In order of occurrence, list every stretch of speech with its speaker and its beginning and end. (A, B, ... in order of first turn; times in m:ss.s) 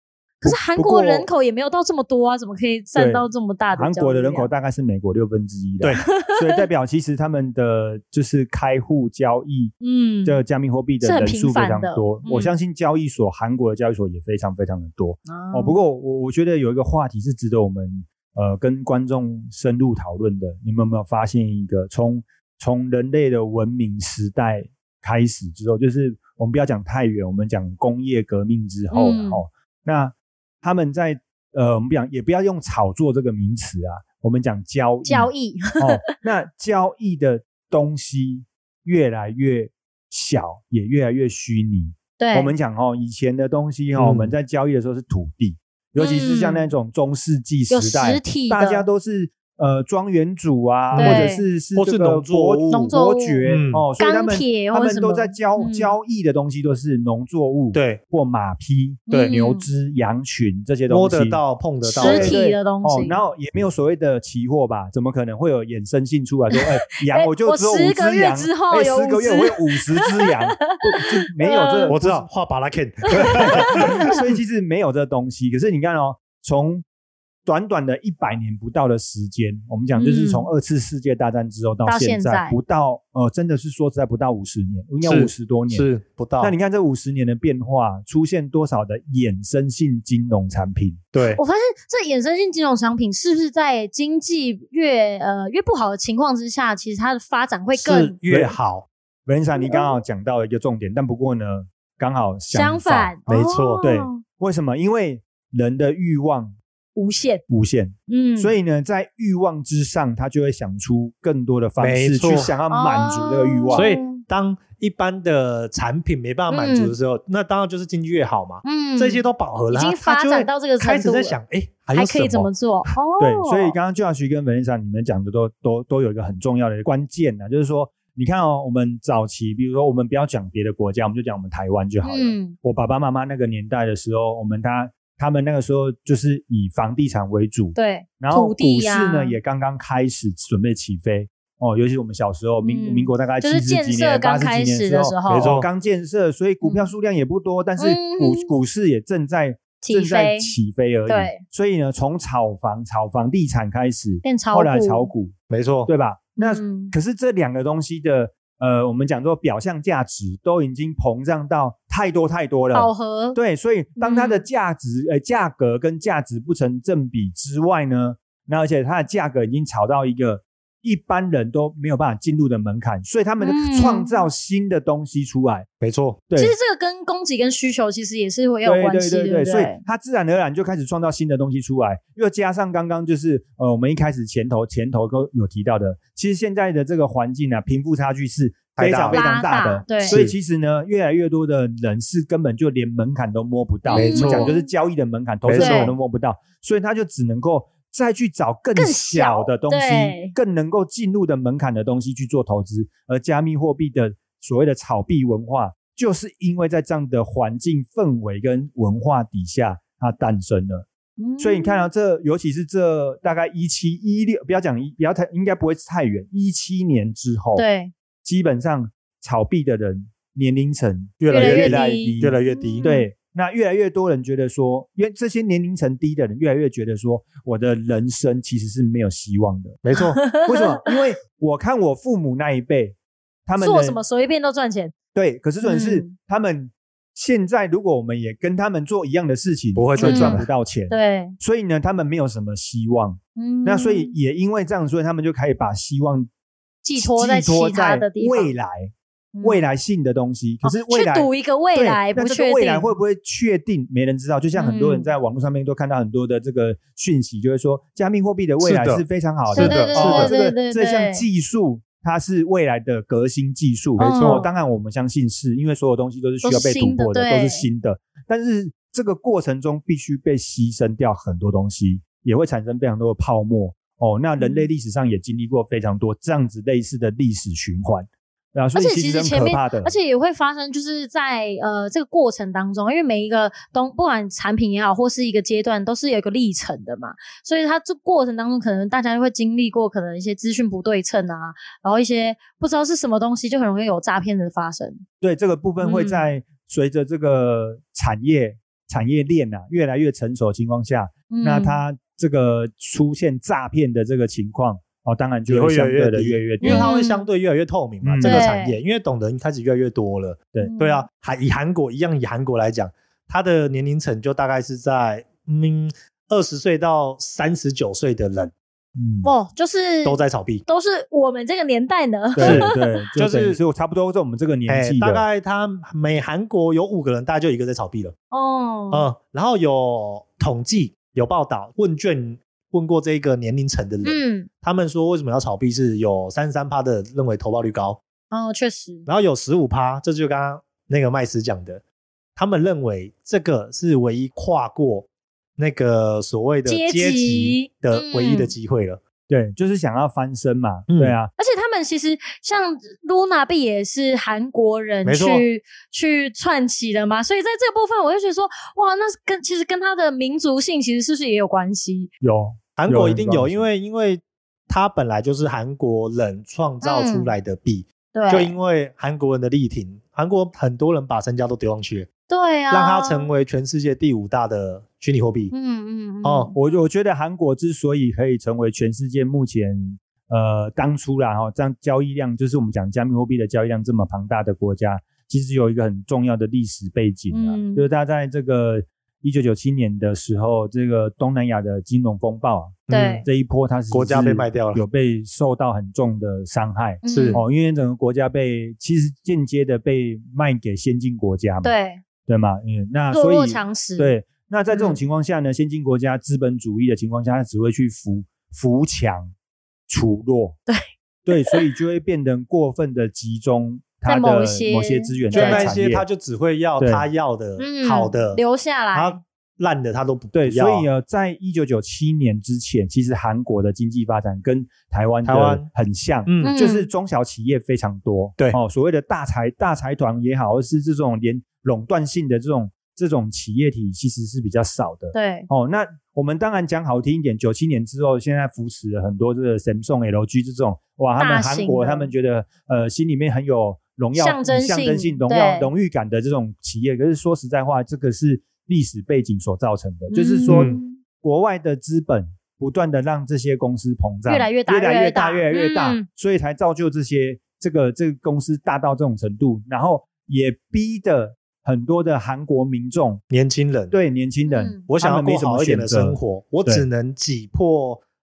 0:00.4-0:04.5 A
0:00.4-0:01.3 B
0:03.0-0:09.7 B
0:06.2-0:06.6 A
0:09.8-0:10.4 A
0:10.2-1:01.4 B
0:11.0-0:12.5 A
0:15.3-0:15.8 A
0:28.9-0:29.4 A
0:35.1-0:36.0 A
0:42.2-0:42.5 A
0:44.0-0:44.3 C
0:46.0-0:46.7 A
0:47.7-0:48.9 A
0:50.9-0:52.9 C
0:51.0-0:51.5 A
0:52.7-0:53.4 A
0:53.4-0:53.9 C
0:54.0-0:56.0 A
0:57.7-0:58.0 C
0:59.1-0:59.7 A
1:00.9-1:02.4 C
1:01.8-1:03.2 A
1:01.9-1:12.3 B
1:06.6-1:10.8 A
1:11.4-1:12.0 A
1:11.9-1:14.2 C
1:13.2-1:14.0 A
1:13.2-1:16.8 B
1:17.4-1:25.8 B
1:20.0-1:20.5 A
1:21.8-1:22.6 A
1:25.0-1:26.6 C
1:26.4-1:31.0 B
1:31.1-1:31.4 C
1:31.2-1:38.2 A
1:37.7-1:38.9 C
1:38.3-1:38.6 B
1:39.3-1:43.1 B
1:39.6-1:40.0 A
1:42.5-1:44.2 A
1:43.3-1:43.8 C
1:43.8-1:46.6 B
1:47.0-1:47.4 A
1:47.5-1:53.9 B
1:48.1-1:48.5 A
1:51.8-1:52.6 C
1:52.7-1:54.2 A
1:53.7-2:02.9 C
1:56.5-1:57.0 A
1:58.6-2:01.4 A
2:01.9-2:03.8 A
2:03.2-2:35.3 B
2:12.0-2:12.6 A
2:17.8-2:19.4 A
2:22.6-2:25.5 A
2:25.3-2:25.7 C
2:26.6-2:26.9 A
2:27.8-2:28.5 A
2:29.8-2:30.5 A
2:31.1-2:31.4 A
2:34.2-2:35.1 A
2:35.5-2:35.9 C
2:35.9-2:55.7 B
2:36.4-2:36.9 A
2:42.7-2:43.4 A
2:44.0-2:44.5 A
2:53.4-2:54.3 A
2:55.8-2:56.2 C
2:56.3-2:56.6 B
2:56.4-2:59.8 A
2:58.6-3:30.8 B
3:08.8-3:09.3 C
3:09.1-3:10.2 A
3:10.0-3:10.3 C
3:13.8-3:14.7 A
3:14.0-3:14.5 C
3:15.4-3:15.9 C
3:15.6-3:16.0 A
3:18.8-3:20.3 A
3:31.2-3:31.9 A
3:31.4-3:37.6 B
3:37.6-3:37.9 A
3:38.2-3:49.8 B
3:41.2-3:42.9 C
3:41.3-3:43.1 A
3:49.8-3:50.2 C
3:50.0-3:50.8 A
3:50.4-3:54.0 B
3:53.6-3:54.9 A
3:55.1-4:06.3 B
3:55.6-3:56.1 A
3:59.8-4:00.5 C
4:00.0-4:01.4 A
4:03.4-4:04.1 A
4:06.8-4:08.5 A
4:07.0-4:08.9 B
4:09.3-4:09.6 A
4:09.4-4:40.0 B
4:10.6-4:13.0 A
4:14.6-4:15.1 A
4:18.6-4:20.3 C
4:19.5-4:21.2 A
4:24.0-4:24.5 C
4:24.0-4:24.5 A
4:26.4-4:27.7 A
4:34.4-4:34.7 A
4:38.8-4:55.0 A
4:55.2-5:06.9 B
4:55.8-4:56.2 A
5:01.3-5:01.8 A
5:05.5-5:18.5 C
5:06.6-5:07.3 A
5:08.0-5:08.5 B
5:08.2-5:08.8 A
5:10.6-5:11.1 A
5:19.0-5:19.3 B
5:19.2-5:22.8 A
5:20.0-5:20.6 C
5:22.4-5:25.2 B
5:22.4-5:23.6 C
5:24.7-5:28.1 C
5:28.3-5:29.1 A
5:28.9-5:38.0 C
5:34.0-5:34.5 A
5:38.3-5:39.1 A
5:39.1-5:41.8 C
5:42.4-5:49.0 C
5:46.6-5:48.5 A
5:49.3-5:51.3 B
5:50.9-5:51.2 C
5:51.4-6:02.1 A
5:55.0-5:55.5 C
6:02.2-6:03.6 B
6:02.8-6:12.1 C
6:06.8-6:07.4 A
6:08.1-6:08.6 A
6:12.3-6:13.3 A
6:12.7-6:15.5 C
6:15.5-6:16.6 A
6:16.2-6:16.5 C
6:16.6-6:49.3 B
6:27.3-6:27.9 A
6:32.9-6:33.3 C
6:32.9-6:33.3 A
6:33.9-6:34.8 C
6:37.0-6:37.4 A
6:37.1-6:37.4 C
6:41.6-6:42.0 A
6:43.1-6:44.1 A
6:44.7-6:45.0 A
6:49.9-6:50.6 B
6:50.7-6:51.6 A
6:51.3-6:56.0 B
6:54.1-6:55.8 A
6:55.3-6:58.4 C
6:56.8-6:57.1 B
6:57.6-6:59.2 A
6:58.9-7:00.9 C
7:00.3-7:43.2 B
7:05.2-7:05.7 C
7:06.3-7:06.6 C
7:06.4-7:06.9 A
7:15.1-7:15.5 A
7:21.2-7:22.1 A
7:24.2-7:25.7 A
7:30.1-7:31.0 A
7:30.5-7:30.8 C
7:34.3-7:36.0 A
7:43.3-7:44.0 C
7:43.9-7:46.9 B
7:44.4-7:44.9 A
7:44.9-7:48.0 C